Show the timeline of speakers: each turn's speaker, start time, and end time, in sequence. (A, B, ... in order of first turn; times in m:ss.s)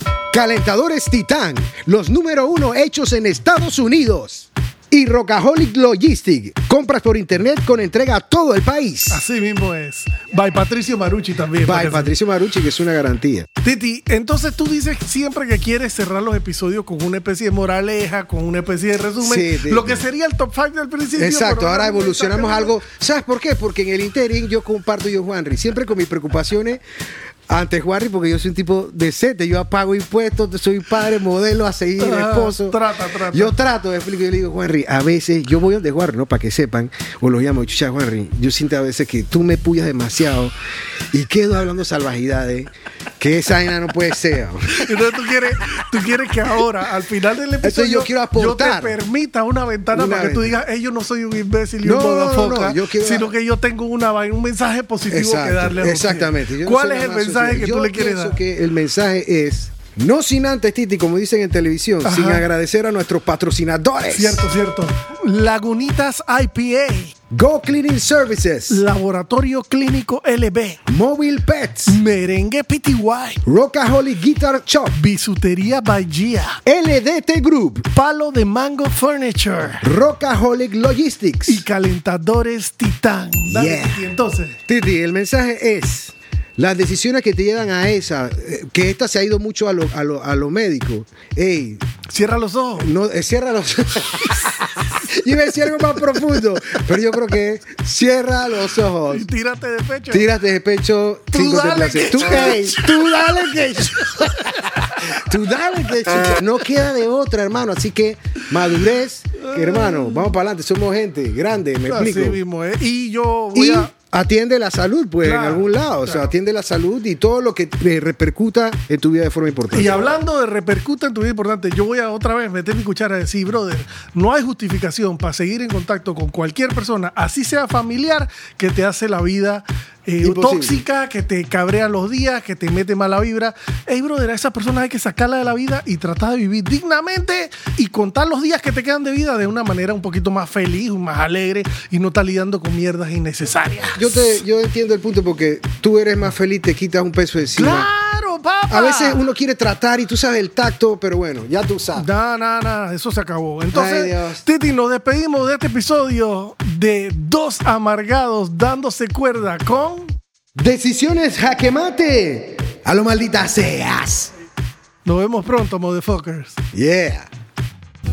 0:00.3-0:09.2 A
0:09.1-0:12.1 B
0:11.6-0:13.5 A
0:13.6-0:22.8 B
0:19.2-0:20.0 A
0:21.2-0:26.8 A
0:27.5-0:32.8 A
0:32.0-0:33.6 B
0:33.3-0:40.5 A
0:41.1-0:45.0 A
0:44.8-0:58.4 B
0:47.6-0:49.0 A
0:49.9-0:50.6 A
0:51.8-0:53.3 A
0:55.1-1:04.4 A
1:02.0-1:02.4 B
1:04.1-1:07.2 B
1:07.3-1:08.8 A
1:08.7-1:10.8 B
1:10.9-1:12.0 A
1:11.9-1:13.4 B
1:13.4-1:15.0 A
1:14.9-1:16.6 B
1:16.6-1:17.9 A
1:17.9-1:19.9 B
1:19.8-1:21.6 A
1:21.5-1:24.6 B
1:23.4-1:24.1 A
1:24.7-1:31.8 A
1:32.1-1:32.9 B
1:32.8-1:39.3 A
1:39.1-1:40.3 B
1:40.1-1:52.4 A
1:41.3-1:43.4 B
1:44.1-1:45.0 B
1:49.4-1:50.3 B
1:51.9-1:53.9 B
1:53.5-2:00.0 A
1:55.2-1:56.3 B
1:59.7-2:24.4 B
2:10.2-2:10.8 A
2:24.0-2:27.9 A
2:27.6-2:29.3 B
2:28.7-2:32.1 A
2:32.0-2:40.2 B
2:33.7-2:34.4 A
2:40.6-2:44.3 A
2:45.0-2:46.6 B
2:46.7-2:47.3 A